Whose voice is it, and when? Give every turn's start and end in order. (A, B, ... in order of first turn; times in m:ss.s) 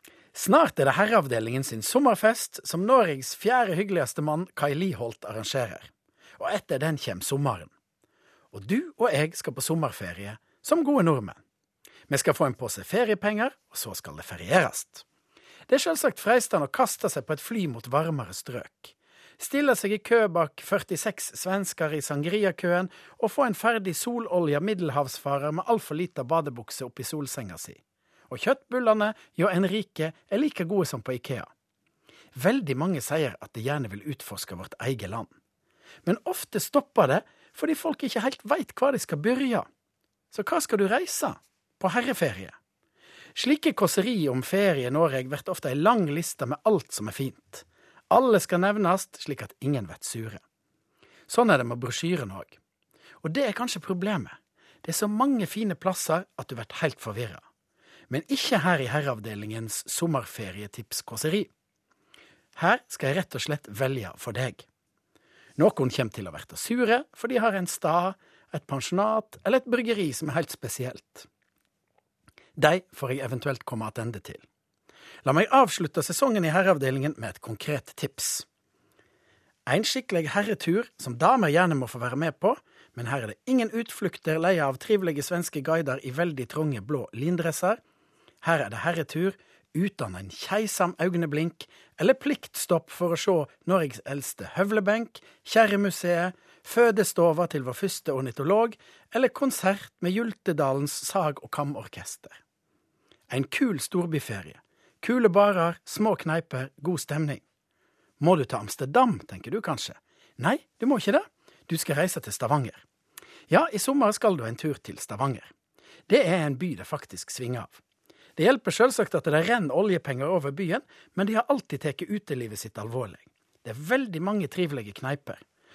0:00.3-0:07.7 A
0:08.5-0:11.4 A
0:12.1-0:15.0 A
0:15.7-0:31.5 A
0:32.3-0:35.3 A
0:36.0-0:39.7 A
0:40.3-0:42.5 A
0:43.3-0:50.4 A
0:51.3-0:52.6 A
0:53.2-0:57.4 A
0:58.1-1:01.5 A
1:02.6-1:04.6 A
1:05.6-1:11.3 A
1:12.6-1:14.4 A
1:15.2-1:18.4 A
1:19.6-1:27.8 A
1:28.4-1:42.4 A
1:43.3-1:47.4 A
1:48.2-1:52.8 A
1:53.5-1:55.5 A
1:56.1-1:57.8 A
1:58.4-2:05.4 A